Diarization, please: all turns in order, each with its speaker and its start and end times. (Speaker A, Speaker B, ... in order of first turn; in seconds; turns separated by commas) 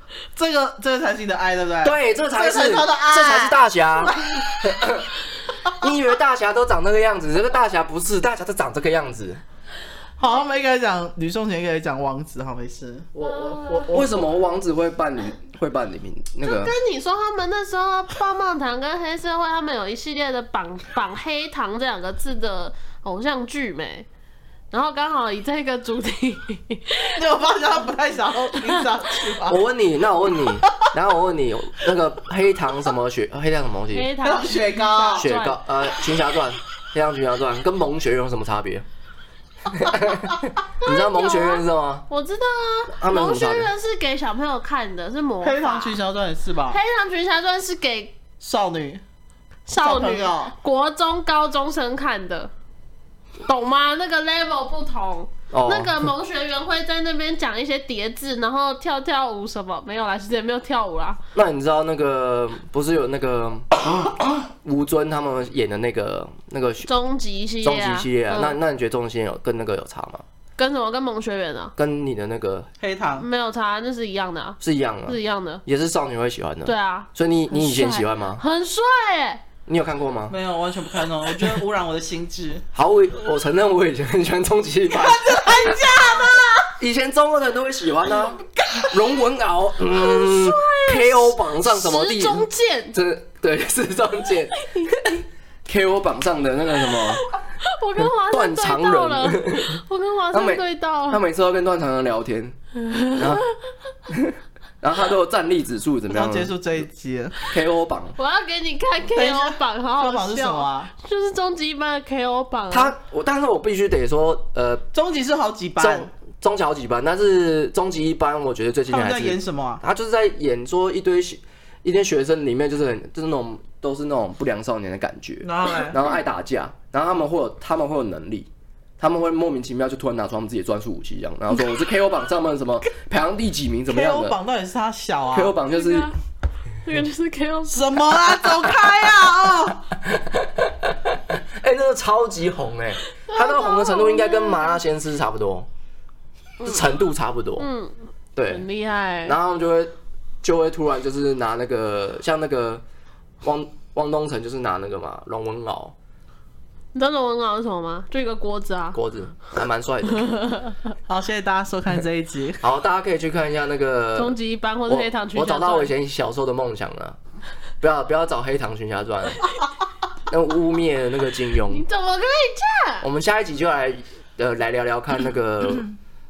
Speaker A: 0.3-4.5, Speaker B: 1.8-5.1, Speaker B: 5.7-9.4, Speaker A: 10.2-14.2, Speaker C: 13.2-13.9, Speaker B: 13.9-16.7, Speaker C: 16.4-24.1, Speaker C: 24.7-27.2, Speaker A: 27.1-29.6, Speaker B: 29.4-34.1, Speaker A: 30.4-30.9, Speaker C: 33.9-35.6, Speaker A: 34.2-35.3, Speaker B: 35.2-38.9, Speaker B: 39.7-42.1, Speaker C: 40.8-46.0, Speaker B: 42.9-43.7, Speaker A: 45.4-46.8, Speaker C: 46.7-48.2, Speaker A: 48.4-49.0, Speaker C: 49.7-52.5, Speaker A: 49.8-50.6, Speaker C: 53.5-61.2, Speaker B: 55.5-56.1, Speaker B: 61.3-63.7, Speaker B: 64.5-66.9, Speaker C: 66.8-68.6, Speaker B: 67.6-70.2, Speaker C: 70.6-71.7, Speaker B: 71.8-72.7, Speaker A: 72.8-73.3, Speaker C: 73.2-75.6, Speaker B: 74.6-78.4, Speaker C: 76.7-79.4, Speaker B: 79.7-80.4, Speaker A: 80.3-82.7, Speaker B: 82.7-85.9, Speaker A: 84.9-86.8, Speaker B: 86.8-97.2, Speaker C: 89.9-93.0, Speaker C: 94.6-95.2, Speaker C: 97.0-101.2, Speaker B: 98.0-102.6, Speaker C: 102.8-103.5, Speaker B: 103.1-103.4, Speaker B: 104.1-106.6, Speaker A: 106.1-107.4, Speaker B: 107.5-108.2, Speaker C: 108.2-112.9, Speaker A: 109.2-110.9, Speaker B: 112.7-114.9, Speaker A: 114.9-116.1, Speaker B: 115.8-134.4, Speaker A: 118.9-119.8, Speaker A: 125.4-126.1, Speaker A: 133.9-135.6, Speaker B: 135.3-136.1, Speaker C: 135.7-136.1, Speaker C: 136.8-138.2, Speaker A: 137.7-139.9, Speaker B: 140.0-145.7, Speaker C: 143.2-144.8, Speaker B: 146.6-147.7, Speaker C: 147.6-149.4, Speaker B: 148.4-148.7, Speaker B: 149.2-152.8, Speaker B: 153.4-155.9, Speaker C: 156.9-159.0, Speaker B: 158.9-160.3, Speaker C: 160.2-160.8, Speaker A: 161.1-162.6, Speaker B: 162.6-167.2, Speaker C: 164.2-165.9, Speaker B: 167.8-169.5, Speaker B: 170.3-171.9, Speaker C: 171.7-173.1, Speaker B: 173.0-175.9